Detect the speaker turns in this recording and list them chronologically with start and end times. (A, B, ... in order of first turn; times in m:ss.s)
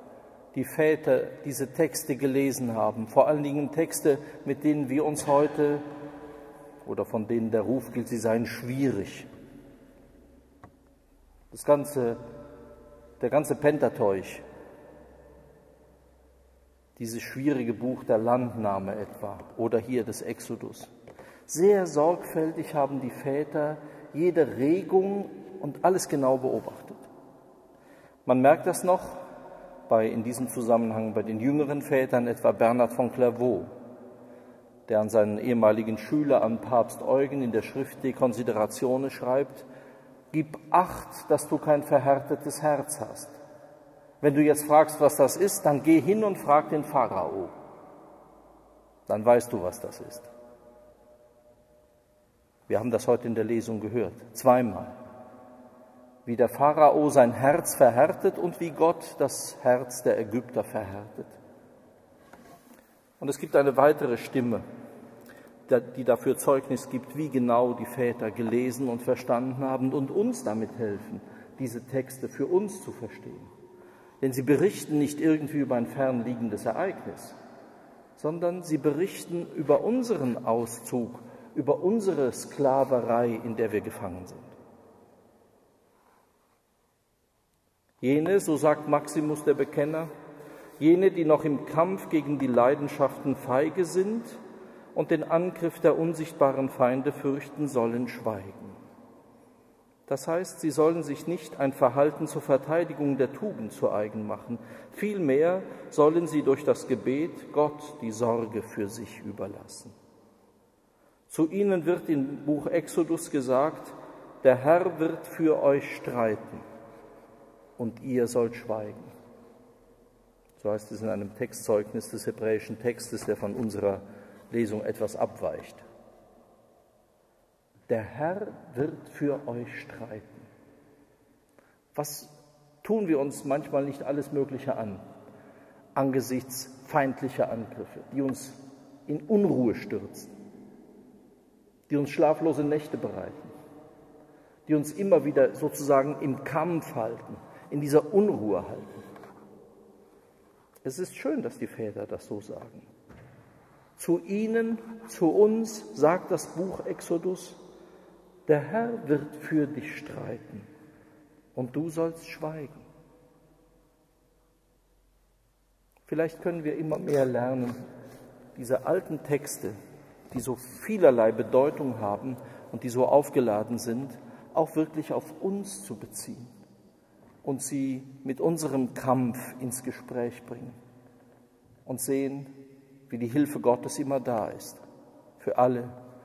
0:00.5-0:05.8 A
0:06.8-0:09.3 A
0:11.5-0:12.2 A
0:13.2-0:14.4 A
0:17.0-0:20.9 A
0:21.5-0:27.0 A
0:28.3-0:29.2 A
0:29.9-0:33.7 A
0:34.9-0:39.7 A
0:40.3-0:43.4 A
0:44.2-0:47.6 A
0:49.1-0:50.3 A
0:52.7-0:55.0 A
0:56.2-1:01.4 A
1:03.2-1:04.6 A
1:05.7-1:13.5 A
1:14.2-1:17.4 A
1:18.2-1:24.6 A
1:28.0-1:30.1 A
1:30.8-1:34.4 A
1:34.9-1:38.8 A
1:40.1-1:49.9 A
1:51.3-1:56.6 A
1:57.8-1:59.1 A
2:00.6-2:05.8 A
2:07.9-2:10.5 A
2:11.9-2:15.0 A
2:15.9-2:20.3 A
2:21.9-2:23.5 A
2:24.7-2:29.0 A
2:30.8-2:32.9 A
2:34.0-2:37.6 A
2:38.5-2:40.7 A
2:41.5-2:42.9 A
2:46.1-2:47.8 A
2:48.5-2:49.8 A
2:50.3-2:56.5 A
2:57.4-3:00.8 A
3:01.8-3:02.5 A
3:03.1-3:04.8 A
3:05.4-3:06.0 A